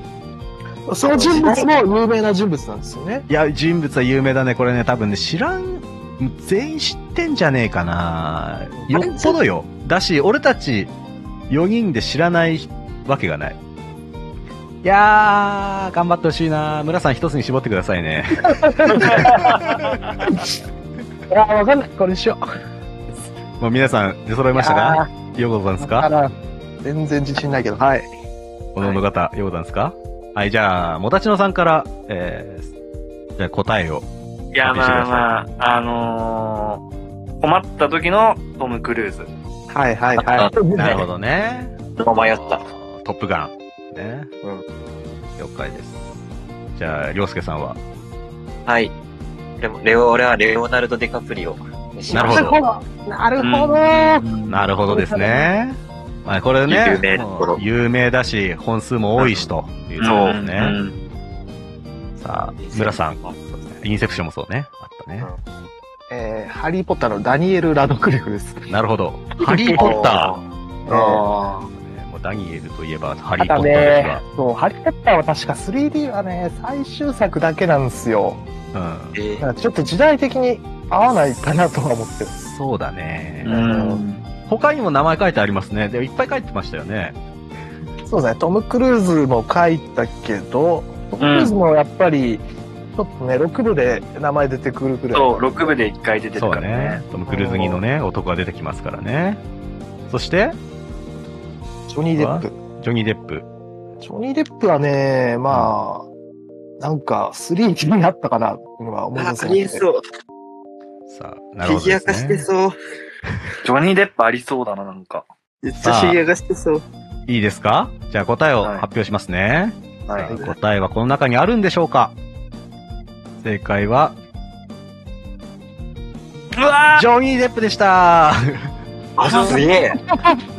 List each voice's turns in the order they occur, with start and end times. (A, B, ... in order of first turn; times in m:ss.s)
0:00.9-0:03.2 A
0:01.0-0:01.7 B
0:03.3-0:10.9 C
0:08.8-0:09.4 A
0:11.5-0:13.6 C
0:14.8-0:19.8 C
0:18.6-0:19.6 A
0:19.5-0:20.0 D
0:21.3-0:22.4 A
0:23.6-0:26.1 C
0:24.5-0:25.1 A
0:25.8-0:26.3 A
0:26.8-0:28.1 A
0:28.7-0:32.7 C
0:33.4-0:34.0 C
0:34.5-0:36.8 D
0:34.6-0:35.3 C
0:37.4-0:39.3 D
0:39.7-0:41.0 A
0:40.2-0:41.0 B
0:40.7-0:44.3 C
0:42.0-0:42.6 B
0:45.4-0:46.1 C
0:46.7-0:47.8 C
0:48.7-0:48.9 B
0:49.6-0:52.5 B
0:52.1-0:54.2 A
0:52.1-0:52.6 C
0:53.4-0:54.6 D
0:54.5-1:00.8 C
0:54.8-0:55.5 A
0:56.7-0:57.6 B
1:00.0-1:00.9 D
1:00.0-1:00.4 B
1:02.2-1:05.3 C
1:02.6-1:03.4 B
1:06.1-1:08.7 A
1:08.7-1:10.4 C
1:09.4-1:09.9 A
1:09.7-1:10.1 D
1:09.8-1:10.4 B
1:10.8-1:11.7 D
1:10.9-1:11.2 A
1:11.7-1:14.2 C
1:13.4-1:18.4 A
1:18.7-1:19.2 C
1:19.1-1:19.4 B
1:19.4-1:22.3 A
1:21.1-1:23.6 C
1:23.4-1:24.2 D
1:23.4-1:24.0 A
1:24.5-1:27.2 C
1:28.0-1:32.4 A
1:31.2-1:31.6 D
1:33.0-1:35.7 A
1:35.1-1:37.0 D
1:36.4-1:39.4 C
1:37.3-1:37.8 A
1:40.1-1:40.6 C
1:41.9-1:42.6 A
1:42.2-1:43.5 C
1:44.0-1:46.1 A
1:45.5-1:45.7 C
1:46.8-1:49.8 A
1:49.2-1:50.0 B
1:51.1-1:52.5 C
1:51.6-1:52.7 B
1:53.6-1:55.2 D
1:55.6-1:56.8 B
1:55.8-1:56.2 C
1:57.3-2:02.1 C
1:58.6-1:58.8 D
2:00.0-2:00.3 D
2:00.2-2:00.5 A
2:03.4-2:04.2 C
2:06.6-2:07.0 D
2:06.9-2:08.7 C
2:09.2-2:10.0 B
2:09.3-2:09.6 D
2:09.3-2:09.6 A